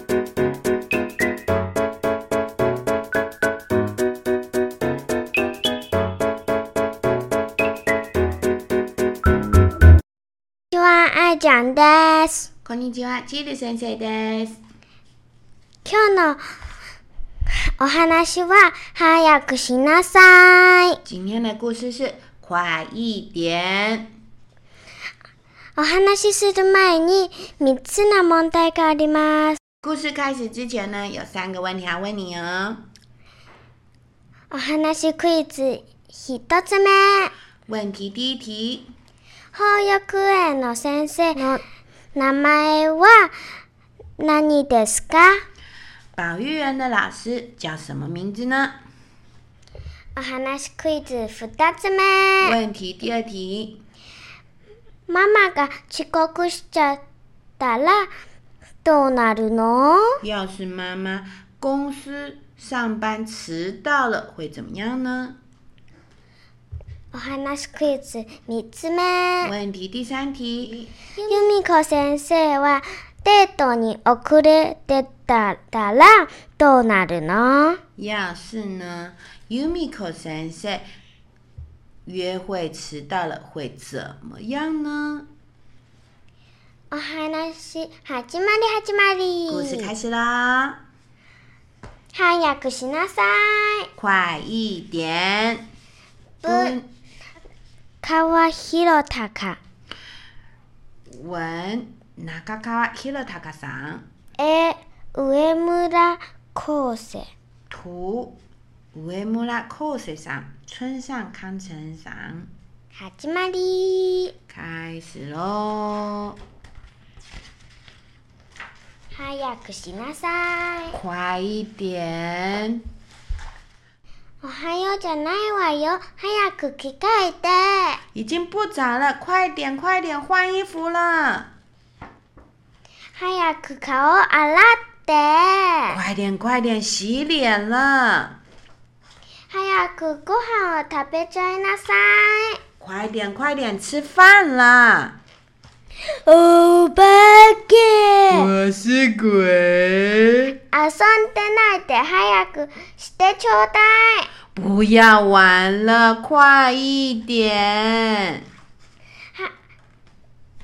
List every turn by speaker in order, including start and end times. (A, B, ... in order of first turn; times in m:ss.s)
0:10.7-0:12.5 A
0:12.6-0:14.6 B
0:15.8-0:16.4 A
0:17.8-0:21.0 A
0:21.0-0:24.1 B
0:25.8-0:29.6 A
0:29.8-0:32.8 B
0:34.5-0:37.3 A
0:37.7-0:38.9 B
0:39.5-0:41.6 A
0:42.1-0:43.3 A
0:44.2-0:45.4 A
0:46.2-0:48.8 B
0:50.2-0:52.6 A
0:52.4-0:53.8 B
0:55.1-0:57.0 A
0:57.6-0:58.1 A
0:58.8-1:00.2 A
1:00.2-1:05.4 B
1:07.1-1:09.5 A
1:09.4-1:10.9 B
1:11.2-1:17.8 A
1:18.0-1:20.9 B
1:22.0-1:25.3 B
1:26.9-1:29.9 A
1:29.5-1:30.8 B
1:32.1-1:33.9 A
1:34.0-1:35.6 B
1:36.4-1:36.8 A
1:36.4-1:36.8 B
1:38.0-1:39.6 A
1:41.1-1:44.0 B
1:44.4-1:47.3 A
1:47.7-1:48.4 B
1:48.9-1:52.5 B
1:52.9-1:54.3 A
1:54.5-1:56.4 B
1:59.1-2:01.0 A
2:00.9-2:02.8 B
2:04.4-2:08.0 A
2:08.1-2:11.5 B
2:13.1-2:16.0 A
2:15.9-2:18.4 B
2:19.5-2:22.6 A
2:22.8-2:25.1 B
2:26.1-2:28.5 A
2:28.3-2:30.5 B
2:30.7-2:34.3 A
2:34.5-2:38.4 B